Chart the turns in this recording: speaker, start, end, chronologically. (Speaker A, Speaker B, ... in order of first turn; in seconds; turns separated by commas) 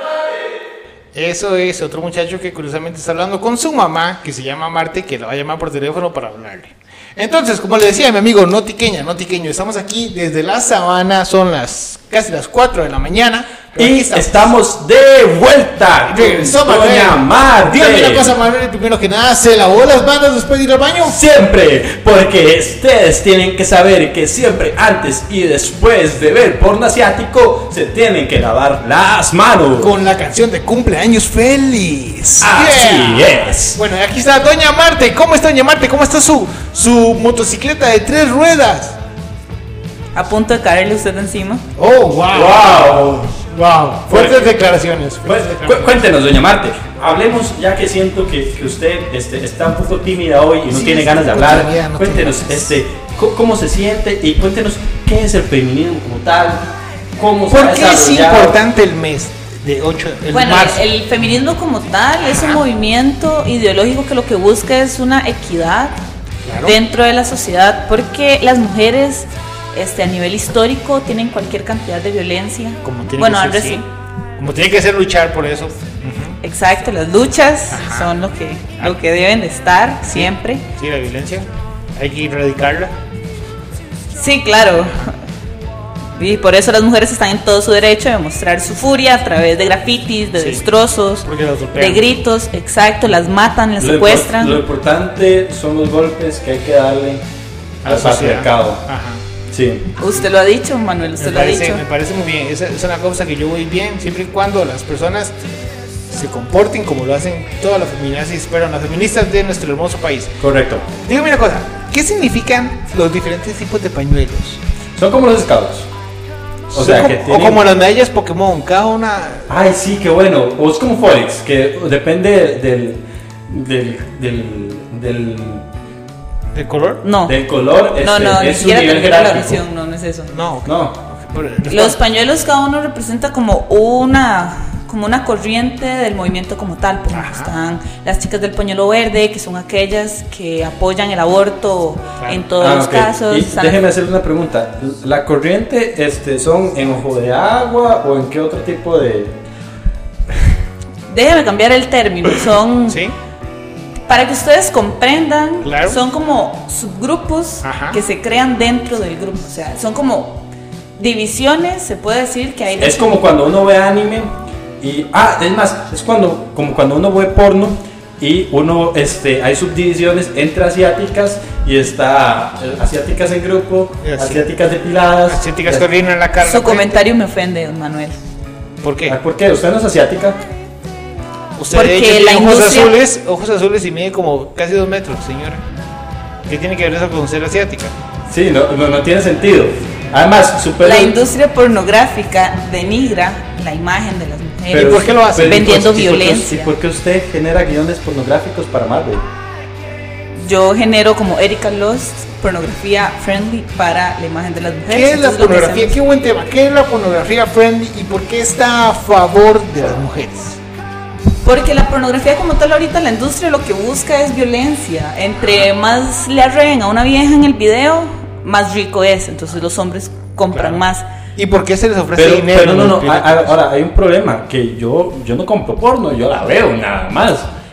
Speaker A: 1.1-14.5, Speaker B: 13.8-18.4, Speaker A: 16.1-21.2, Speaker B: 21.1-29.9, Speaker A: 29.8-39.0, Speaker B: 32.4-33.8, Speaker C: 40.1-41.6, Speaker A: 41.8-46.0, Speaker B: 42.3-43.2, Speaker B: 44.1-44.5, Speaker B: 45.2-58.6, Speaker A: 50.7-52.8, Speaker A: 57.5-60.8, Speaker C: 60.3-66.0, Speaker A: 62.3-62.6, Speaker A: 66.5-66.8, Speaker C: 66.6-73.8, Speaker A: 72.8-73.8, Speaker A: 74.4-76.4, Speaker C: 76.4-80.7, Speaker A: 77.7-78.1, Speaker A: 80.1-82.9, Speaker C: 84.1-85.2, Speaker C: 86.2-94.6, Speaker A: 90.4-90.6, Speaker A: 91.2-92.2, Speaker B: 93.8-97.2, Speaker A: 97.8-99.2, Speaker B: 97.8-98.8, Speaker B: 99.5-99.9, Speaker C: 100.0-101.8, Speaker A: 101.2-105.4, Speaker A: 106.1-110.4, Speaker B: 110.4-110.8, Speaker A: 110.9-114.6, Speaker B: 115.0-115.9, Speaker A: 116.7-119.5, Speaker B: 116.7-117.6, Speaker B: 119.5-125.7, Speaker A: 126.5-127.0, Speaker C: 127.0-127.4, Speaker B: 127.3-129.6, Speaker C: 128.0-130.3, Speaker A: 130.3-132.0, Speaker B: 130.7-131.0, Speaker C: 131.7-143.8, Speaker A: 137.1-137.5, Speaker A: 142.2-142.4, Speaker B: 142.6-149.4, Speaker C: 151.1-153.0, Speaker A: 152.9-153.2, Speaker C: 154.1-163.2, Speaker A: 155.6-156.0, Speaker A: 157.6-158.0, Speaker B: 162.8-175.9, Speaker A: 174.0-174.5, Speaker A: 175.3-177.0, Speaker C: 176.4-178.2, Speaker A: 178.8-179.2, Speaker B: 179.1-180.4, Speaker A: 181.6-185.6, Speaker C: 181.7-182.9, Speaker A: 186.5-187.9, Speaker B: 188.3-191.2, Speaker C: 190.8-196.8, Speaker B: 194.7-199.2, Speaker A: 194.7-196.1, Speaker C: 200.4-206.0, Speaker A: 204.9-210.6, Speaker C: 211.4-221.1, Speaker A: 220.5-220.8, Speaker A: 221.4-223.6, Speaker B: 222.2-227.5